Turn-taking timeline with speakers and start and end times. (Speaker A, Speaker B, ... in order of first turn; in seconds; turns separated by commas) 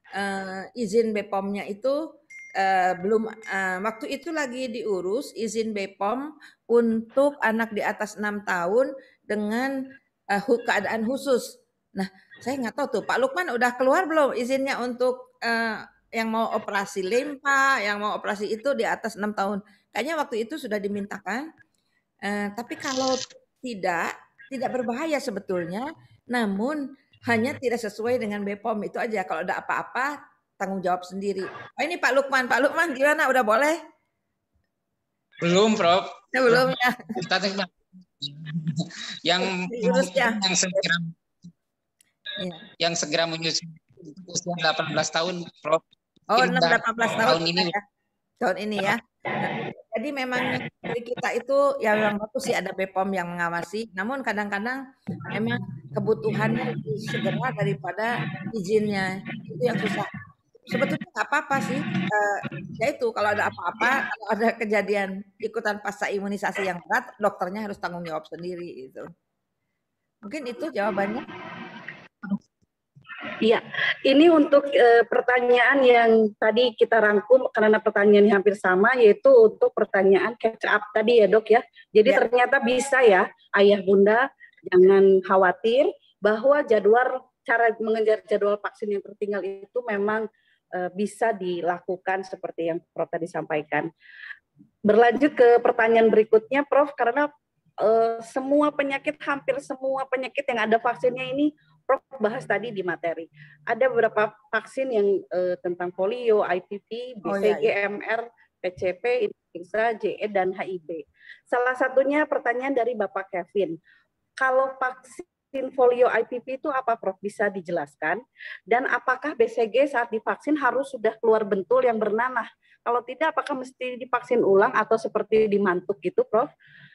Speaker A: 0.2-2.0, Speaker A: 2.6-9.7, Speaker A: 10.3-21.4, Speaker A: 22.2-33.8, Speaker B: 35.4-41.1, Speaker A: 36.3-36.9, Speaker A: 39.4-40.8, Speaker B: 42.8-45.8, Speaker A: 46.3-47.8, Speaker B: 46.3-47.7, Speaker A: 48.4-60.1, Speaker A: 60.7-69.1, Speaker A: 70.2-71.2, Speaker C: 73.4-90.2, Speaker C: 90.7-93.9, Speaker C: 94.8-97.3, Speaker C: 97.8-113.8, Speaker A: 107.2-107.7, Speaker C: 114.4-126.5